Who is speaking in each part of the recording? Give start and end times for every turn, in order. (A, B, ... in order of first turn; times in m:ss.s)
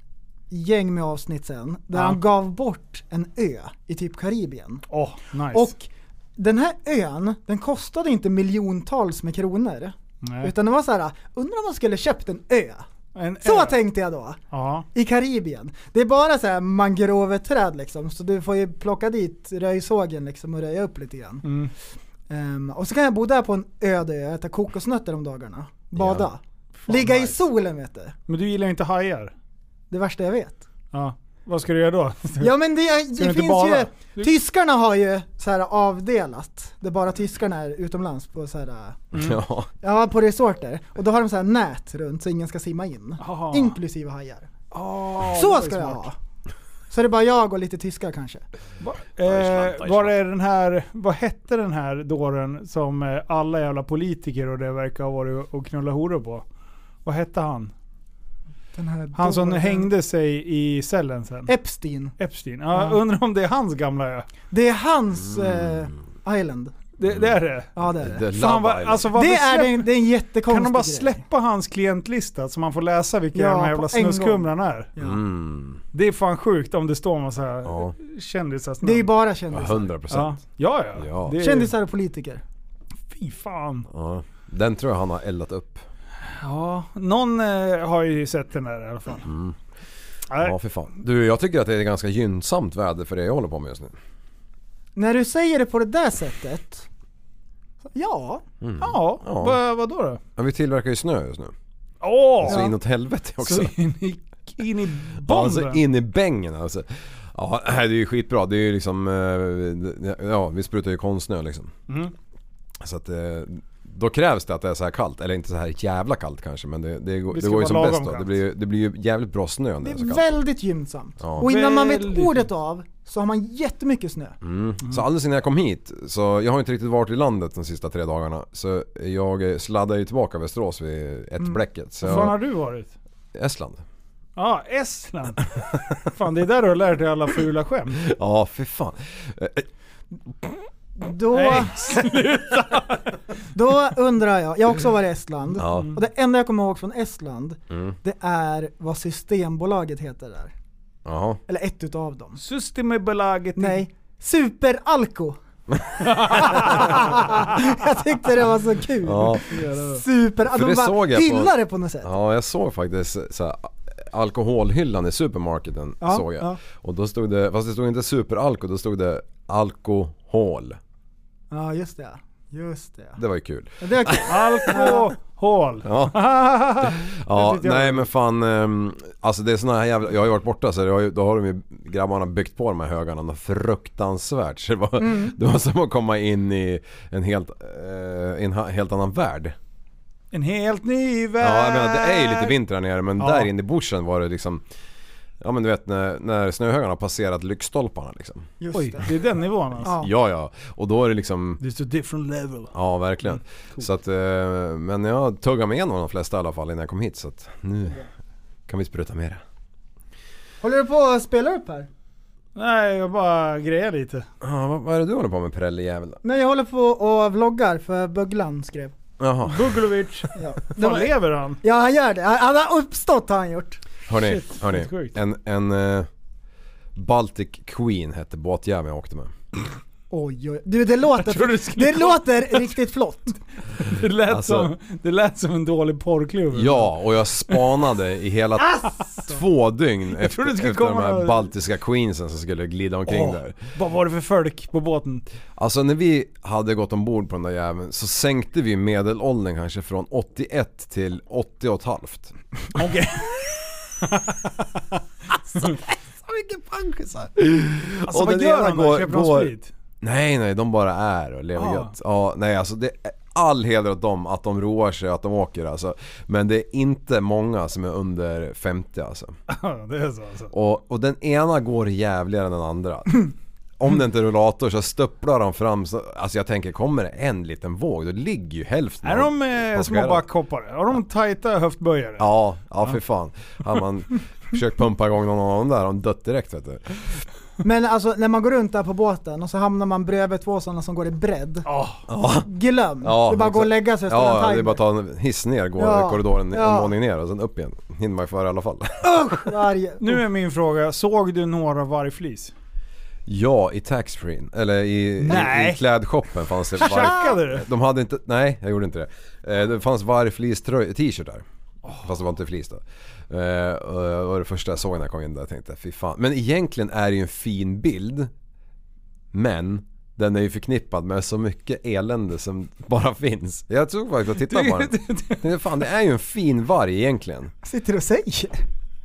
0:00.5-0:04.8 A
0:01.9-0:02.2 B
0:04.9-0:05.7 B
0:05.5-0:12.8 A
0:10.2-0:10.5 B
0:13.2-0:13.8 B
0:13.4-0:14.4 A
0:14.5-0:14.9 B
0:15.0-0:21.5 A
0:21.4-0:21.7 B
0:22.3-0:28.1 A
0:26.0-0:26.2 C
0:26.8-0:27.4 B
0:28.3-0:29.3 B
0:29.9-0:30.6 A
0:30.9-0:32.5 B
0:32.4-0:39.0 A
0:33.2-0:34.3 B
0:39.1-0:39.7 C
0:39.8-0:44.5 A
0:43.2-0:43.8 B
0:44.7-0:46.1 B
0:45.3-0:46.2 A
0:46.9-0:48.4 A
0:48.8-0:56.4 B
0:49.2-0:50.1 C
0:57.0-0:57.7 B
0:58.8-0:59.9 A
0:59.2-1:01.5 B
1:01.5-1:02.1 A
1:02.2-1:04.3 B
1:02.7-1:03.0 A
1:04.5-1:06.7 A
1:05.3-1:05.9 C
1:07.0-1:07.8 B
1:07.8-1:08.2 A
1:08.0-1:09.1 C
1:08.3-1:09.9 B
1:09.1-1:11.2 A
1:10.5-1:14.9 B
1:13.3-1:15.2 A
1:15.0-1:15.8 C
1:15.9-1:19.1 B
1:17.6-1:17.9 C
1:18.8-1:19.9 A
1:19.5-1:20.4 C
1:20.1-1:21.7 B
1:21.0-1:21.4 C
1:21.4-1:22.4 A
1:23.1-1:23.9 B
1:23.9-1:25.8 C
1:26.2-1:29.3 B
1:29.3-1:29.6 C
1:30.3-1:30.6 B
1:30.4-1:34.0 C
1:35.0-1:36.9 A
1:37.9-1:38.4 A
1:38.6-1:39.6 C
1:38.8-1:40.2 B
1:40.4-1:41.5 C
1:42.0-1:42.7 B
1:42.4-1:43.7 C
1:43.4-1:45.8 B
1:45.2-1:51.7 C
1:52.8-2:00.4 C
1:57.3-1:58.4 B
1:59.8-2:04.4 A
2:01.2-2:01.5 C
2:01.4-2:02.5 B
2:04.4-2:12.4 C
2:12.0-2:12.9 B
2:13.3-2:13.8 C
2:14.4-2:18.0 B
2:18.0-2:19.7 C
2:21.0-2:22.0 A
2:21.3-2:23.1 B
2:23.5-2:30.5 A
2:25.6-2:25.9 C
2:25.6-2:25.9 B
2:27.7-2:28.0 C
2:31.0-2:31.4 C
2:31.5-2:32.4 A
2:32.4-2:33.8 B
2:33.6-2:35.4 A
2:36.0-2:37.5 B
2:36.0-2:42.1 A
2:39.0-2:39.4 C
2:39.5-2:40.0 B
2:40.4-2:50.8 C
2:46.0-2:46.6 A
2:51.5-2:53.2 A
2:53.2-2:54.9 C
2:53.8-2:55.1 A
2:54.3-2:58.1 B
2:55.8-3:09.6 C
3:05.0-3:05.3 A
3:10.3-3:12.6 B
3:11.4-3:14.6 C
3:13.2-3:13.5 B
3:15.4-3:18.5 C
3:18.6-3:19.1 A
3:18.7-3:20.0 B
3:19.8-3:20.1 A
3:19.8-3:21.6 C
3:21.6-3:22.7 B
3:22.7-3:28.0 C
3:23.4-3:23.9 B
3:28.7-3:29.4 C
3:30.6-3:31.9 A
3:32.6-3:34.3 B
3:34.4-3:36.2 C
3:36.2-3:38.9 A
3:39.2-3:39.8 C
3:39.5-3:41.6 B
3:40.4-3:43.8 A
3:44.1-3:46.1 C
3:44.1-3:45.2 B
3:47.0-3:49.3 C
3:50.1-3:53.4 A
3:51.2-3:52.7 B
3:53.8-3:56.9 B
3:54.3-3:54.7 C
3:56.5-4:03.6 C
4:00.2-4:01.5 B
4:03.1-4:05.3 B
4:05.6-4:12.4 C
4:12.8-4:14.8 B
4:15.5-4:29.4 C
4:18.1-4:19.7 B
4:21.6-4:21.9 B
4:29.5-4:30.5 B
4:30.5-4:40.2 C
4:39.0-4:42.3 B
4:42.2-4:47.2 C
4:47.6-4:51.7 A
4:51.7-4:52.0 B
4:52.1-4:52.5 C
4:52.4-4:54.8 A
4:53.0-4:59.4 C
4:55.8-4:56.9 A
4:59.0-5:00.2 A
5:00.0-5:02.5 B
5:03.3-5:11.4 C
5:05.2-5:05.8 B
5:06.7-5:07.7 B
5:12.0-5:18.3 C
5:19.3-5:27.5 C
5:24.5-5:25.5 B
5:27.6-5:28.6 A